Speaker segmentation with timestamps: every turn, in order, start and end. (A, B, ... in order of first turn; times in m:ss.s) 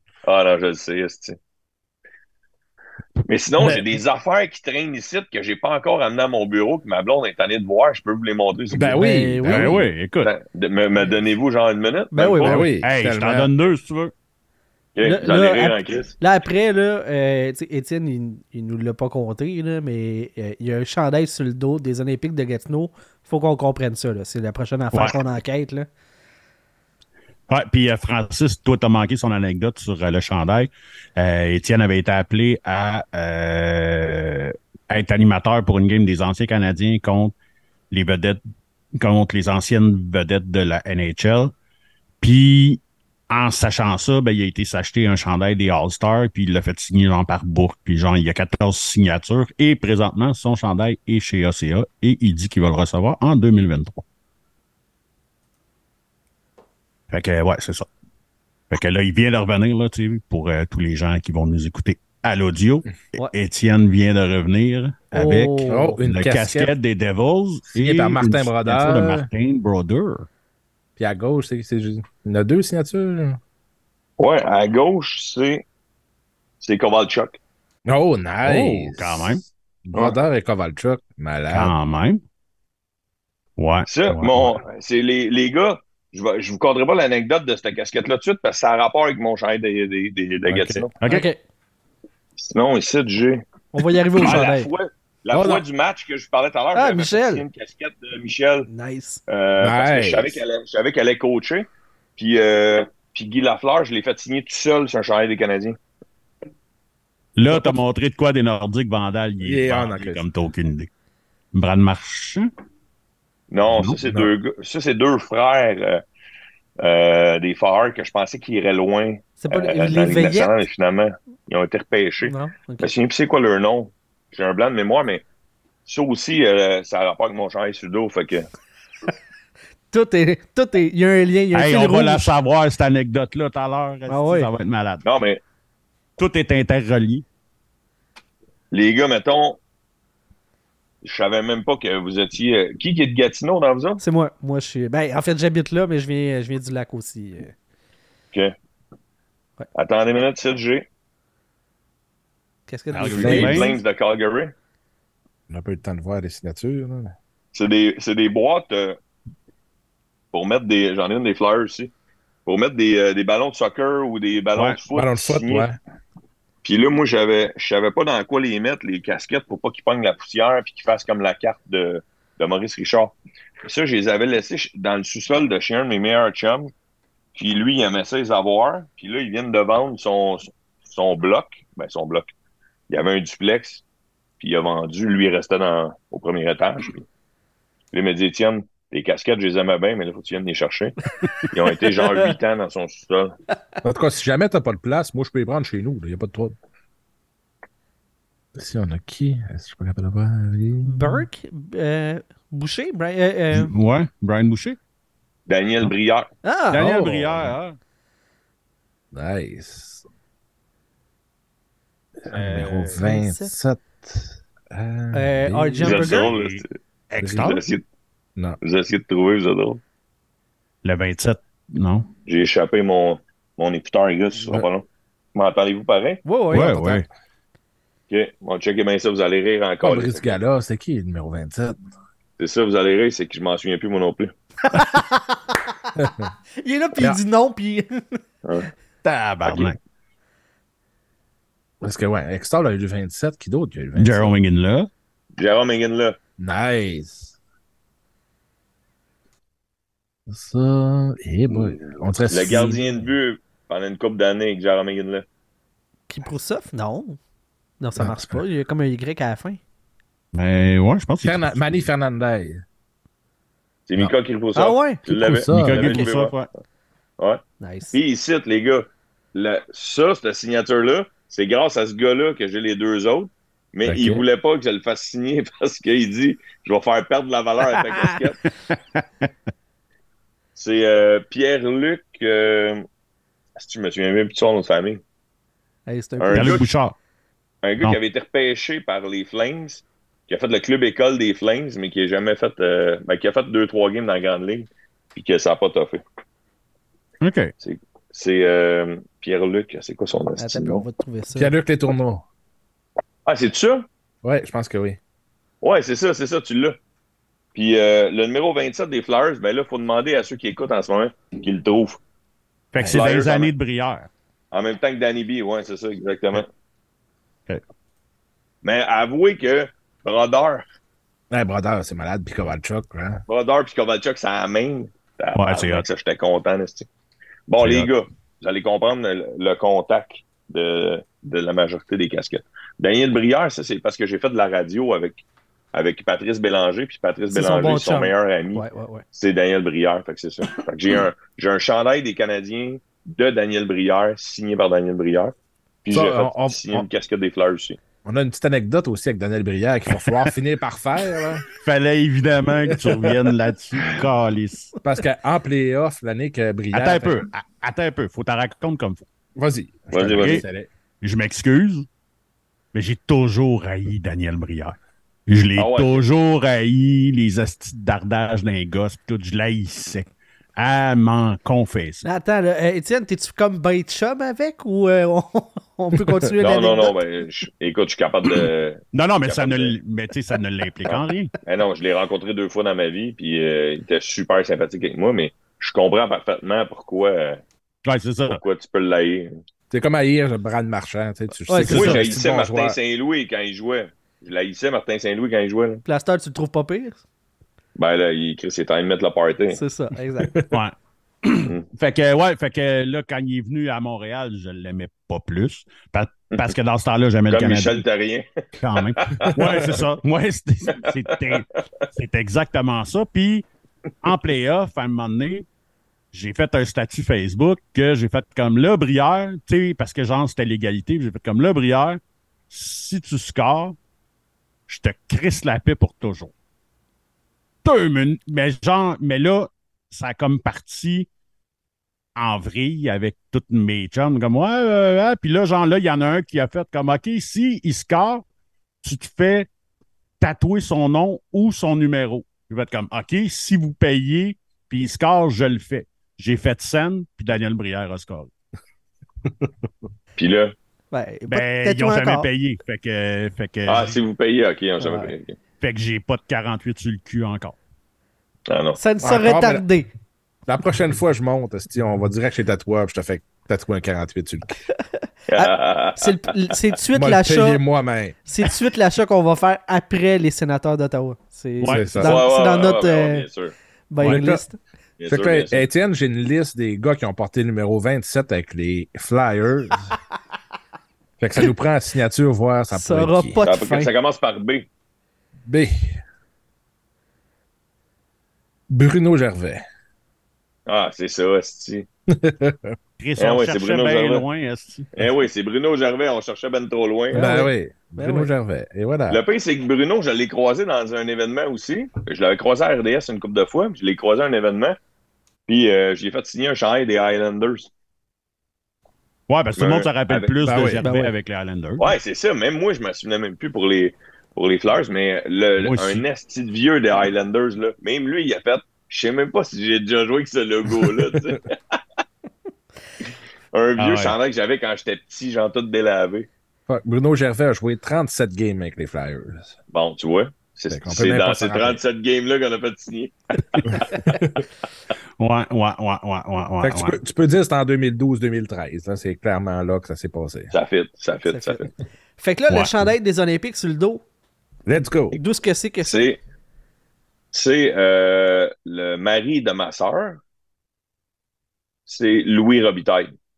0:00.2-0:01.4 A
0:03.3-0:09.0 A
0:03.6-0:03.9 B
0:08.7-0:09.9 B
0:09.0-0:09.7 C
0:09.5-0:10.3 D
0:10.2-0:12.7 A
0:12.1-0:12.7 C
0:12.4-0:13.5 B
0:12.8-0:14.1 D
0:15.0-0:16.1 A
0:15.0-0:25.9 C
0:27.5-0:37.3 D
0:37.9-0:38.4 D
0:39.0-0:41.5 D
0:42.2-0:54.0 D
0:57.1-0:57.9 D
0:58.7-1:10.3 D
1:05.1-1:06.0 C
1:05.7-1:06.7 B
1:07.7-1:09.3 B
1:11.0-1:13.4 B
1:14.2-1:15.6 A
1:16.6-1:17.4 A
1:17.9-1:21.7 B
1:18.4-1:19.4 D
1:21.5-1:22.2 D
1:23.6-1:24.6 D
1:23.9-1:30.9 A
1:30.5-1:30.9 B
1:31.0-1:31.3 D
1:31.0-1:31.4 C
1:32.4-1:33.4 A
1:33.7-1:34.7 C
1:34.1-1:38.7 A
1:35.3-1:35.6 B
1:36.7-1:37.4 C
1:38.7-1:39.2 C
1:39.3-1:45.8 A
1:39.6-1:40.4 B
1:47.4-1:50.9 D
1:47.5-1:47.8 B
1:49.4-1:50.2 B
1:51.5-1:52.5 D
1:53.5-1:56.0 A
1:56.8-2:05.2 A
1:59.4-2:00.5 C
2:02.2-2:02.9 C
2:05.9-2:08.5 A
2:09.9-2:12.3 C
2:11.5-2:15.0 D
2:14.1-2:14.5 C
2:15.0-2:15.4 A
2:16.2-2:17.2 D
2:18.7-2:19.6 A
2:21.0-2:24.0 A
2:24.0-2:27.5 C
2:29.7-2:30.9 A
2:32.7-2:33.7 C
2:32.9-2:33.7 D
2:33.1-2:34.5 A
2:33.2-2:33.7 B
2:35.5-2:37.1 B
2:37.5-2:39.0 A
2:40.3-2:41.9 A
2:42.5-2:45.7 A
2:44.9-2:45.8 B
2:46.6-2:56.7 A
2:57.4-3:02.3 A
3:02.9-3:03.8 A
3:04.4-3:07.1 A
3:07.9-3:11.0 A
3:11.5-3:13.4 A
3:12.0-3:12.3 C
3:13.8-3:16.6 B
3:18.6-3:21.3 B
3:20.8-3:23.7 C
3:23.5-3:24.8 D
3:25.5-3:26.3 A
3:26.4-3:26.9 C
3:26.7-3:27.8 D
3:26.8-3:27.5 B
3:29.1-3:30.1 B
3:32.2-3:36.0 B
3:32.3-3:32.9 D
3:32.9-3:33.5 C
3:35.1-3:36.3 C
3:35.8-3:36.7 A
3:35.8-3:37.6 D
3:37.2-3:37.5 B
3:37.3-3:37.8 A
3:38.6-3:39.8 A
3:40.8-3:42.1 D
3:42.3-3:46.2 A
3:46.2-3:47.0 C
3:46.5-3:47.1 D
3:46.5-3:47.0 B
3:48.1-3:50.4 A
3:49.8-3:51.8 B
3:52.4-3:54.3 A
3:54.6-3:55.7 C
3:56.0-3:56.3 B
3:56.6-3:58.2 C
3:58.4-3:58.7 A
3:59.0-3:59.8 D
3:59.4-3:59.7 A
4:01.8-4:04.4 B
4:04.0-4:04.9 D
4:05.4-4:06.2 A
4:06.4-4:07.4 B
4:10.3-4:13.1 B
4:11.5-4:15.3 A
4:16.1-4:17.2 C
4:17.8-4:19.6 C
4:18.0-4:18.4 B
4:20.3-4:21.6 D
4:21.2-4:22.6 B
4:23.9-4:26.4 A
4:24.6-4:25.0 C
4:25.1-4:26.0 B
4:25.5-4:26.5 D
4:27.6-4:28.0 C
4:27.9-4:38.5 A
4:33.9-4:34.2 D
4:38.7-4:39.0 D
4:40.6-4:42.9 A
4:43.6-4:45.0 A
4:45.9-4:46.6 C
4:46.2-4:46.7 A
4:46.3-4:47.0 D
4:47.6-4:56.0 A
4:57.2-4:57.5 D
4:57.6-5:00.8 A
5:00.4-5:01.6 C
5:01.4-5:02.2 B
5:03.3-5:03.9 A
5:04.2-5:05.0 B
5:05.6-5:06.8 A
5:07.6-5:12.0 A
5:12.7-5:14.1 D
5:12.9-5:13.5 A
5:14.5-5:16.5 A
5:18.6-5:20.7 A
5:21.3-5:23.2 B
5:23.3-5:26.9 A
5:25.4-5:25.9 D
5:27.5-5:35.2 A
5:27.6-5:27.9 D
5:35.7-5:47.8 A
5:37.3-5:39.0 C
5:45.9-5:46.9 B
5:48.0-5:51.5 B
5:51.6-5:54.7 D
5:54.8-5:57.2 B
5:56.7-5:59.1 D
5:59.4-6:00.7 B
5:59.9-6:00.4 A
6:00.2-6:00.4 D
6:01.0-6:01.9 D
6:02.7-6:12.0 D
6:05.6-6:06.0 A
6:12.0-6:17.0 C
6:16.4-6:19.8 A
6:18.9-6:21.3 D
6:20.9-6:27.4 A
6:27.8-6:28.4 D
6:28.3-6:29.3 A
6:29.7-6:32.8 B
6:31.5-6:31.9 C
6:31.7-6:35.8 A
6:31.7-6:32.0 D
6:35.8-6:37.0 C
6:37.8-6:39.6 A
6:39.5-6:40.3 C
6:40.2-6:40.6 B
6:40.5-6:47.8 D
6:47.3-6:49.7 A
6:48.6-6:53.5 D
6:49.2-6:49.8 B
6:54.0-6:55.5 D
6:56.1-7:03.8 D
7:04.7-7:06.3 D
7:07.6-7:11.1 D
7:12.2-7:18.2 D
7:18.8-7:19.5 D
7:20.2-7:28.3 D
7:30.2-7:30.6 A
7:30.9-7:32.3 C
7:31.3-7:34.0 D
7:33.7-7:35.4 A
7:34.8-7:35.1 C
7:35.6-7:37.6 D
7:38.5-7:38.8 A
7:38.8-7:39.9 C
7:39.0-7:39.6 B
7:40.5-7:44.6 B
7:44.9-7:47.6 C
7:45.3-7:46.3 A
7:46.9-7:48.2 B
7:48.3-7:53.3 C
7:51.6-7:52.0 D
7:51.7-7:52.2 B
7:52.0-7:53.6 A
7:53.9-7:54.6 C
7:54.0-7:54.4 B
7:55.0-7:55.6 A
7:55.1-7:59.9 B
8:01.2-8:03.4 B
8:02.7-8:03.9 C
8:03.4-8:04.7 A
8:05.5-8:06.0 B
8:08.7-8:09.6 B
8:10.7-8:11.9 A
8:12.1-8:12.8 B
8:13.0-8:14.9 D
8:13.2-8:14.2 A
8:15.0-8:17.4 A
8:17.1-8:18.3 C
8:17.1-8:19.2 B
8:19.1-8:24.8 A
8:25.5-8:27.7 A
8:29.3-8:31.9 D
8:29.6-8:30.4 A
8:30.4-8:31.1 B
8:30.8-8:31.1 C
8:31.8-8:41.8 A
8:35.6-8:36.0 D
8:43.5-8:46.3 A
8:43.8-8:44.2 D
8:46.7-8:49.6 B
8:49.7-8:53.8 A
8:50.7-8:51.8 B
8:55.2-8:57.0 D
8:56.6-9:00.5 B
9:00.5-9:01.7 A
9:01.3-9:04.0 C
9:02.5-9:02.8 D
9:04.7-9:05.2 B
9:05.1-9:06.0 C
9:05.8-9:06.2 A
9:07.3-9:10.2 A
9:11.9-9:13.2 A